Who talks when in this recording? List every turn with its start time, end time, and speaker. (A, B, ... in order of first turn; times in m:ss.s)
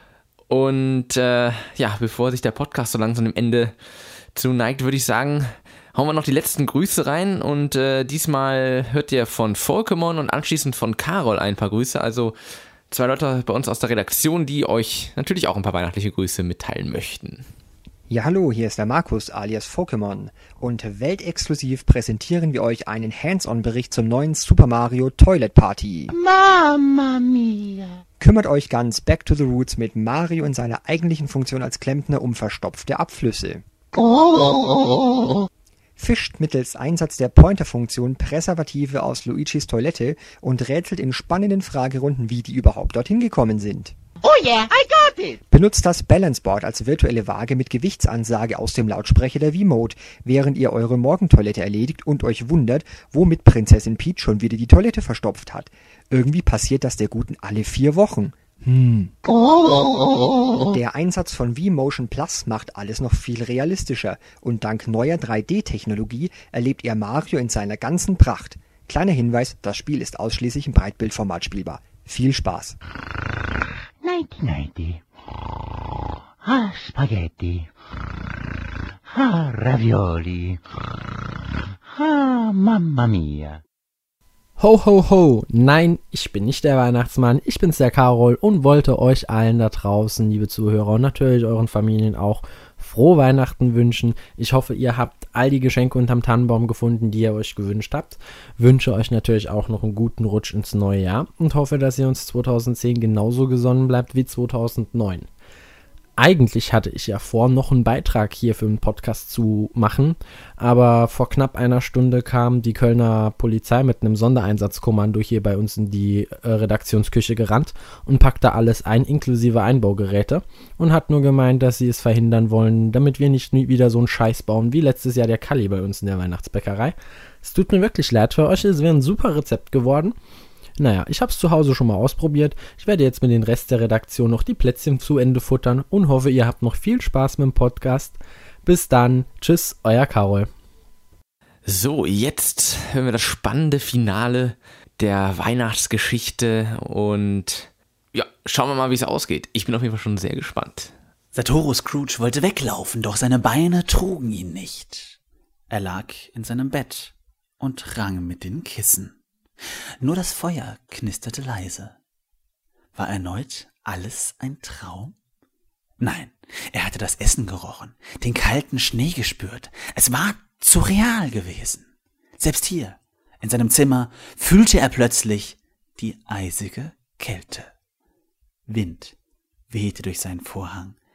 0:00.5-0:03.7 A
0:04.4-0:12.4 A
0:12.9-0:17.5 A
0:18.1-0:26.1 B
0:26.1-0:28.0 C
0:28.2-0:33.6 B
0:36.0-0:43.9 B
0:44.2-0:45.4 C
0:45.5-0:59.1 B
1:00.7-1:12.8 B
1:14.0-1:15.0 C
1:16.4-1:17.7 C
1:19.2-1:20.6 C
1:22.0-1:23.6 C
1:24.6-1:45.3 D
1:46.2-2:10.2 D
2:10.8-2:20.5 D
2:21.7-2:30.9 A
2:31.3-2:35.2 E
2:35.7-2:39.2 E
2:40.0-2:42.0 E
2:43.0-2:45.1 E
2:46.0-2:57.7 E
2:58.7-2:59.1 E
2:59.7-3:01.0 E